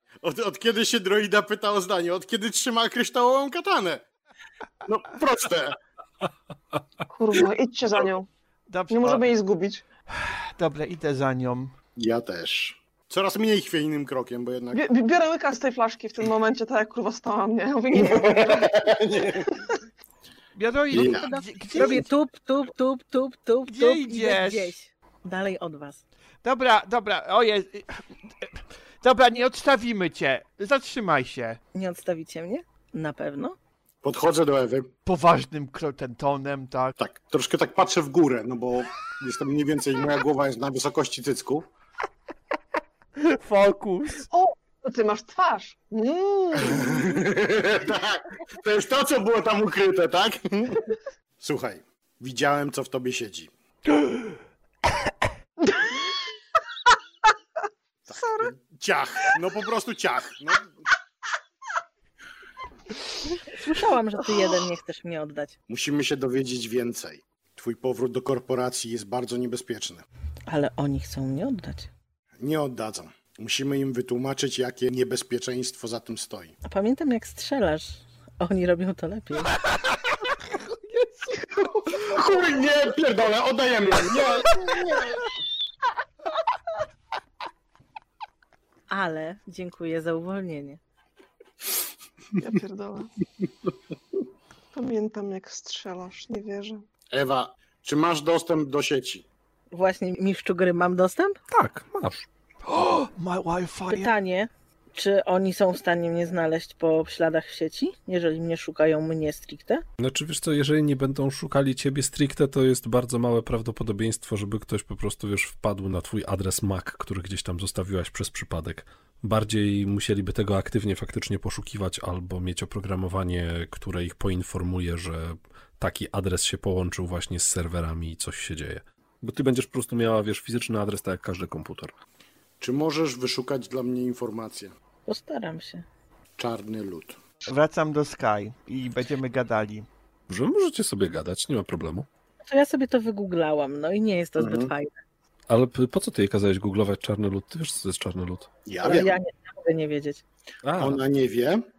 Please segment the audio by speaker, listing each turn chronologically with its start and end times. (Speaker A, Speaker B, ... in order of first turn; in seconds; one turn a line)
Speaker A: 0.2-4.0
Speaker A: 4.8-5.8
Speaker B: 7.1-8.3
Speaker C: 8.7-9.3
Speaker B: 8.9-9.8
Speaker C: 10.2-11.7
Speaker A: 12.0-14.8
Speaker B: 14.7-19.8
Speaker A: 17.9-19.6
Speaker C: 20.6-22.1
Speaker A: 20.9-21.3
Speaker D: 20.9-26.0
Speaker C: 23.7-24.8
Speaker C: 26.4-31.6
Speaker D: 31.7-33.5
Speaker A: 34.0-34.9
Speaker C: 35.1-37.0
Speaker A: 37.0-41.7
Speaker C: 43.2-44.3
Speaker B: 44.3-47.2
Speaker A: 46.6-53.5
Speaker B: 55.7-56.0
Speaker A: 58.1-60.7
Speaker B: 58.1-58.5
Speaker D: 63.4-65.5
Speaker A: 65.7-70.0
Speaker D: 70.5-71.9
Speaker A: 72.4-76.5
Speaker D: 76.7-79.6
Speaker C: 80.2-82.2
Speaker A: 82.0-85.2
Speaker C: 84.2-84.9
Speaker D: 88.9-90.8
Speaker B: 92.4-93.1
Speaker B: 94.7-96.8
Speaker A: 97.1-99.3
Speaker D: 99.7-101.4
Speaker E: 101.5-102.3
Speaker C: 102.6-104.1
Speaker D: 103.9-109.8
Speaker E: 110.0-131.9
Speaker A: 132.6-134.7
Speaker D: 135.1-135.8
Speaker A: 136.4-137.2
Speaker C: 137.5-139.9
Speaker E: 140.3-142.1
Speaker D: 142.4-144.9
Speaker A: 144.4-144.7
Speaker E: 145.5-148.5
Speaker A: 148.7-149.2
Speaker D: 148.8-150.2
Speaker E: 150.6-151.0
Speaker A: 150.8-151.6